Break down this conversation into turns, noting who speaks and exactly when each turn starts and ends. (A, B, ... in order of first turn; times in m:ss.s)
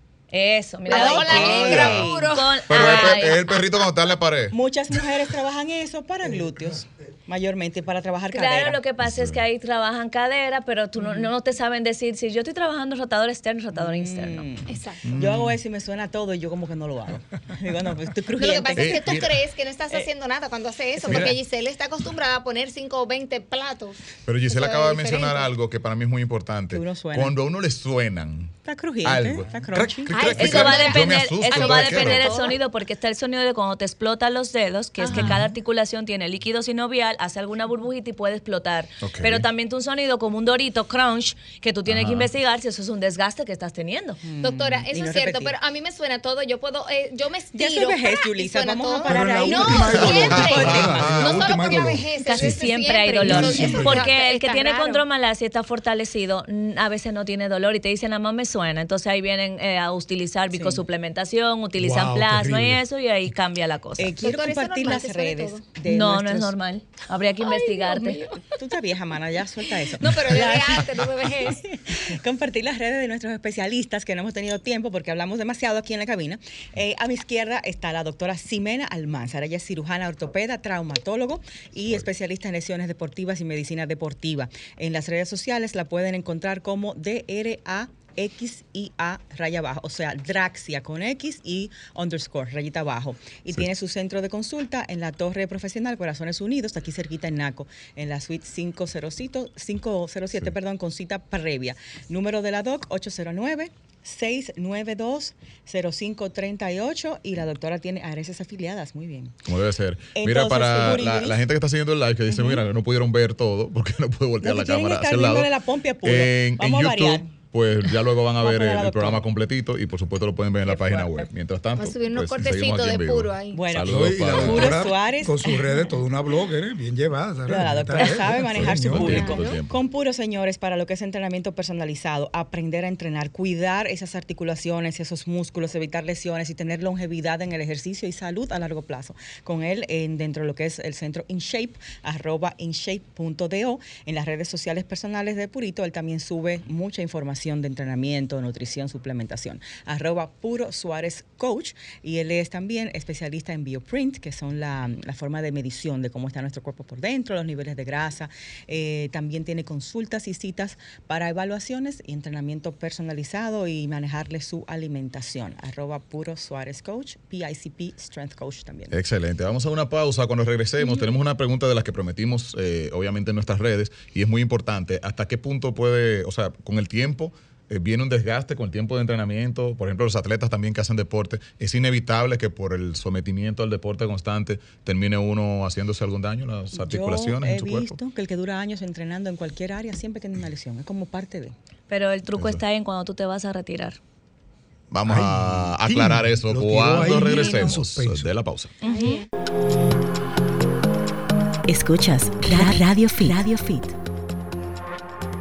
0:00.3-0:03.6 A
0:00.9-0:03.2 B
0:00.9-0:02.4 C
0:01.3-0:02.1 D
0:02.7-0:04.6 D
0:04.5-0:08.8 C
0:06.2-0:07.2 E
0:08.3-0:14.4 A
0:09.0-0:09.4 D
0:11.0-0:11.3 C
0:13.7-0:19.1 C
0:14.7-0:15.1 B
0:15.0-0:15.6 D
0:18.4-0:25.5 B
0:18.7-0:19.4 D
0:21.0-0:21.3 C
0:21.0-0:21.4 D
0:24.2-0:32.3 D
0:26.7-0:27.4 C
0:28.6-0:30.6 C
0:29.5-0:29.8 E
0:30.1-0:32.6 B
0:30.3-0:44.2 A
0:35.0-0:35.4 B
0:39.0-0:39.4 D
0:41.9-0:42.3 D
0:44.2-0:45.5 C
0:44.4-0:55.0 B
0:47.5-0:51.3 C
0:49.0-0:52.6 E
0:49.9-0:51.8 D
0:52.2-1:04.1 A
0:53.2-0:54.0 E
0:53.2-0:54.0 D
1:00.5-1:00.8 C
1:01.8-1:02.8 E
1:04.0-1:06.5 C
1:04.2-1:05.6 B
1:05.8-1:08.2 A
1:07.4-1:08.6 B
1:08.4-1:49.4 C
1:09.9-1:11.6 B
1:49.4-1:55.5 D
1:50.1-1:51.4 C
1:52.3-1:52.6 C
1:54.4-1:57.3 C
1:56.0-2:04.8 D
1:58.4-1:59.2 C
2:00.6-2:01.3 C
2:01.8-2:03.6 B
2:03.5-2:05.7 C
2:03.9-2:09.3 E
2:07.5-2:48.9 C
2:08.5-2:09.8 D
2:09.1-2:09.6 B
2:48.9-3:08.0 D
2:50.8-2:51.1 B
3:06.7-3:11.5 C
3:11.9-3:14.0 A
3:14.9-3:18.7 D
3:15.0-3:18.3 E
3:18.8-3:19.2 A
3:21.7-3:23.9 F